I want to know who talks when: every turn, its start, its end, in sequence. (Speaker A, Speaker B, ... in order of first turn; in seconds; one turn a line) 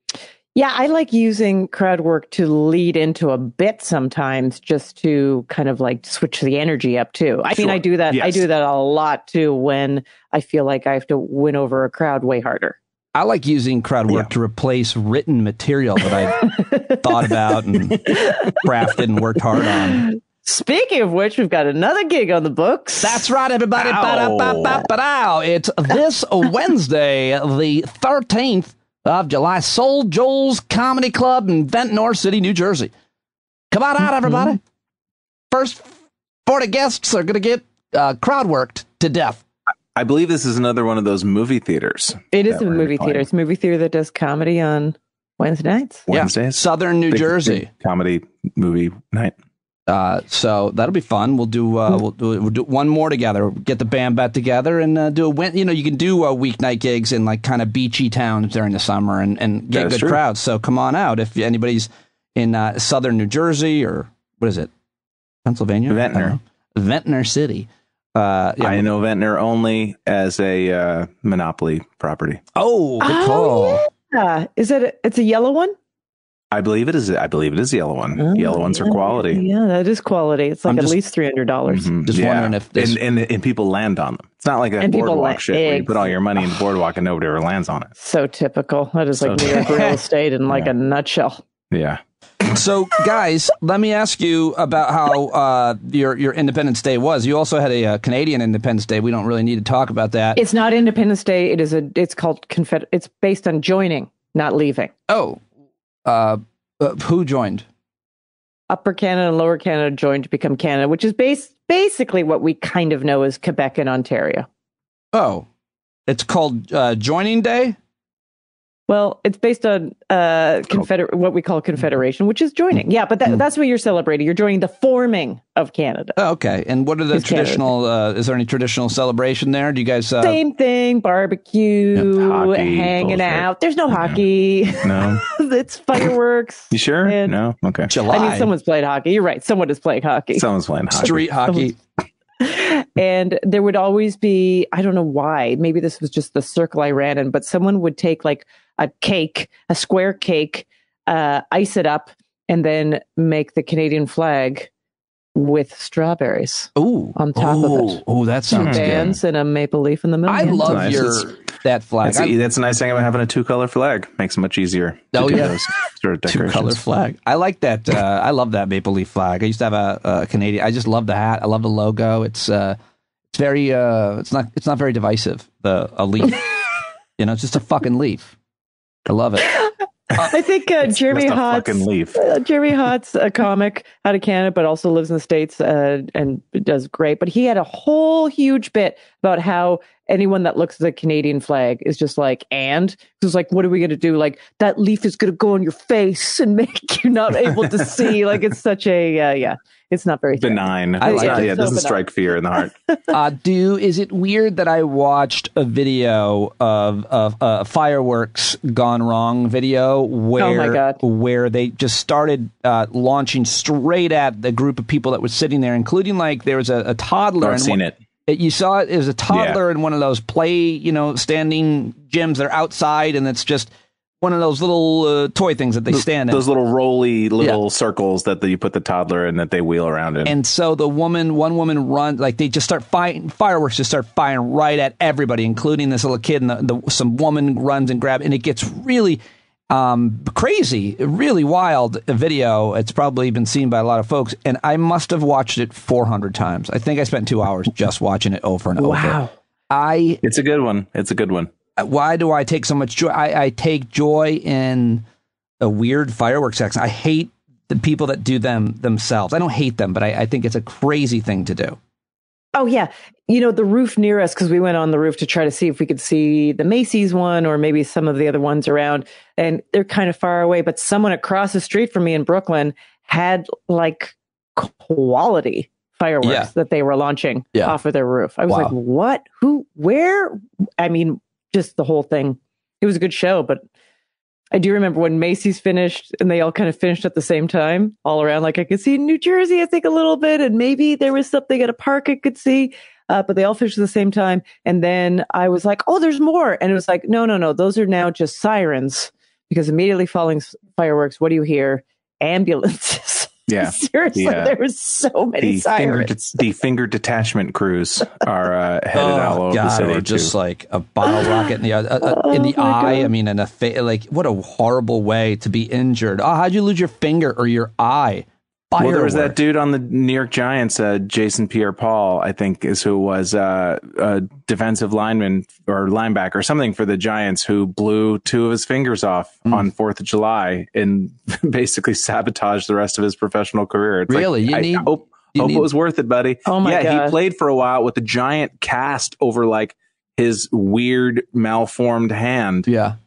Speaker A: 0.5-12.8
Speaker B: 7.5-8.4
Speaker C: 13.1-20.1
Speaker A: 16.4-17.1
Speaker A: 18.1-18.6
Speaker A: 20.0-23.2
Speaker C: 23.0-32.9
Speaker B: 23.8-24.8
Speaker C: 33.7-34.6
Speaker C: 35.5-35.9
Speaker C: 36.5-39.4
Speaker B: 39.9-43.2
Speaker A: 42.3-46.0
Speaker B: 46.1-49.3
Speaker C: 46.1-47.7
Speaker C: 49.9-64.7
Speaker B: 59.7-60.2
Speaker C: 65.4-68.8
Speaker B: 65.9-66.3
Speaker B: 68.6-72.4
Speaker C: 72.5-73.8
Speaker A: 73.0-75.7
Speaker B: 76.5-79.4
Speaker A: 78.2-81.9
Speaker C: 80.7-80.9
Speaker B: 81.7-87.9
Speaker C: 82.0-83.0
Speaker A: 84.8-86.4
Speaker A: 88.0-91.4
Speaker B: 89.2-89.5
Speaker C: 89.4-90.0
Speaker B: 91.7-92.5
Speaker C: 92.5-100.4
Speaker A: 100.3-104.9
Speaker C: 105.1-105.4
Speaker C: 106.0-107.6
Speaker A: 108.7-114.5
Speaker C: 115.1-115.5
Speaker C: 116.1-117.8
Speaker A: 118.9-126.2
Speaker C: 126.2-130.4
Speaker A: 127.1-127.6
Speaker A: 130.2-137.3
Speaker B: 132.1-134.2
Speaker B: 134.8-135.2
Speaker B: 136.7-137.9
Speaker C: 137.9-138.5
Speaker A: 138.1-140.4
Speaker B: 140.3-141.3
Speaker C: 140.9-141.7
Speaker A: 141.0-141.7
Speaker A: 142.4-154.7
Speaker A: 155.3-161.0
Speaker C: 156.8-159.2
Speaker B: 158.5-158.9
Speaker C: 160.3-162.3
Speaker B: 160.6-161.3
Speaker B: 162.0-166.8
Speaker C: 165.1-165.6
Speaker C: 166.3-172.8
Speaker C: 173.3-176.4
Speaker C: 177.2-178.3
Speaker C: 179.1-179.5
Speaker A: 179.6-203.1
Speaker B: 180.9-182.2
Speaker B: 200.4-202.7
Speaker C: 201.0-201.7
Speaker C: 203.1-226.4
Speaker A: 210.4-211.0
Speaker B: 217.4-218.0
Speaker B: 219.3-219.6
Speaker B: 225.9-230.3
Speaker C: 230.2-249.2
Speaker A: 248.8-249.3
Speaker C: 249.7-250.2
Speaker B: 250.2-251.5
Speaker C: 251.8-255.0
Speaker C: 255.6-261.8
Speaker A: 262.5-283.6
Speaker C: 276.2-276.5
Speaker C: 278.5-278.7
Speaker A: 284.5-306.1
Speaker B: 303.5-304.5
Speaker B: 305.4-310.3
Speaker C: 308.9-319.4
Speaker A: 312.1-313.1
Speaker B: 318.8-342.7
Speaker C: 334.1-335.7
Speaker A: 336.4-337.1
Speaker C: 342.7-343.0